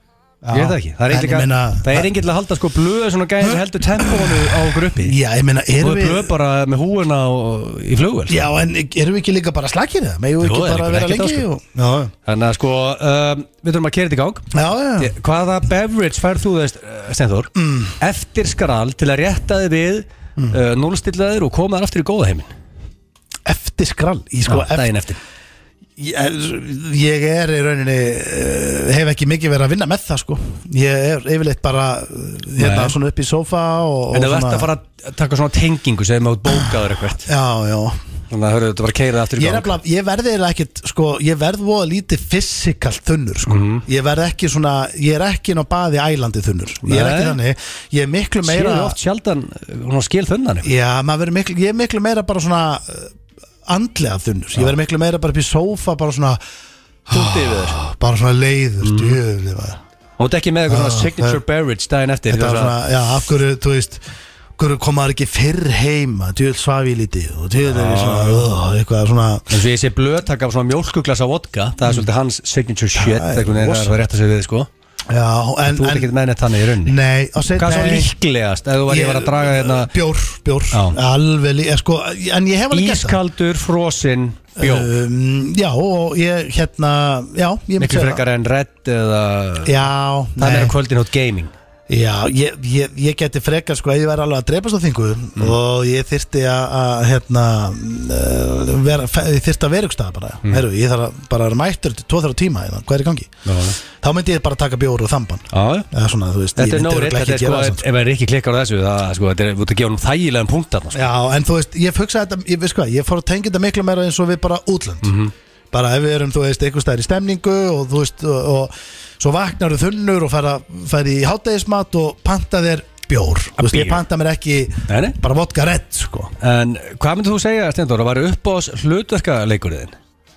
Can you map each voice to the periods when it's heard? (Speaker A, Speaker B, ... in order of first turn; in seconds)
Speaker A: 0.4-2.1, 4.0-6.3, 8.3-12.1, 14.5-15.1, 17.6-17.9, 23.4-24.9, 26.0-34.7, 37.2-38.0, 39.4-49.0, 50.6-53.1, 53.7-56.4, 57.1-59.8, 60.7-61.4, 62.3-64.0, 64.6-69.5, 72.9-74.0, 75.1-76.1, 76.8-78.1, 78.9-83.2, 84.6-88.2, 89.6-90.7, 91.9-107.8, 110.9-115.1, 115.7-126.3
Speaker B: 0.5-5.2, 5.8-8.4, 10.4-11.4, 12.3-22.5, 24.5-25.2, 32.6-33.0, 34.1-37.3, 38.3-39.8, 43.5-43.8, 46.8-47.4, 48.4-50.7, 57.1-57.8, 58.8-59.2, 60.2-62.7, 67.7-68.5, 69.5-74.7, 75.7-77.0, 77.5-79.9, 80.7-81.0, 82.7-84.9, 87.8-89.8, 90.4-91.5, 103.5-103.8, 105.5-105.9, 106.5-111.0, 115.0-115.3, 123.6-124.0, 124.9-125.2, 126.4-129.9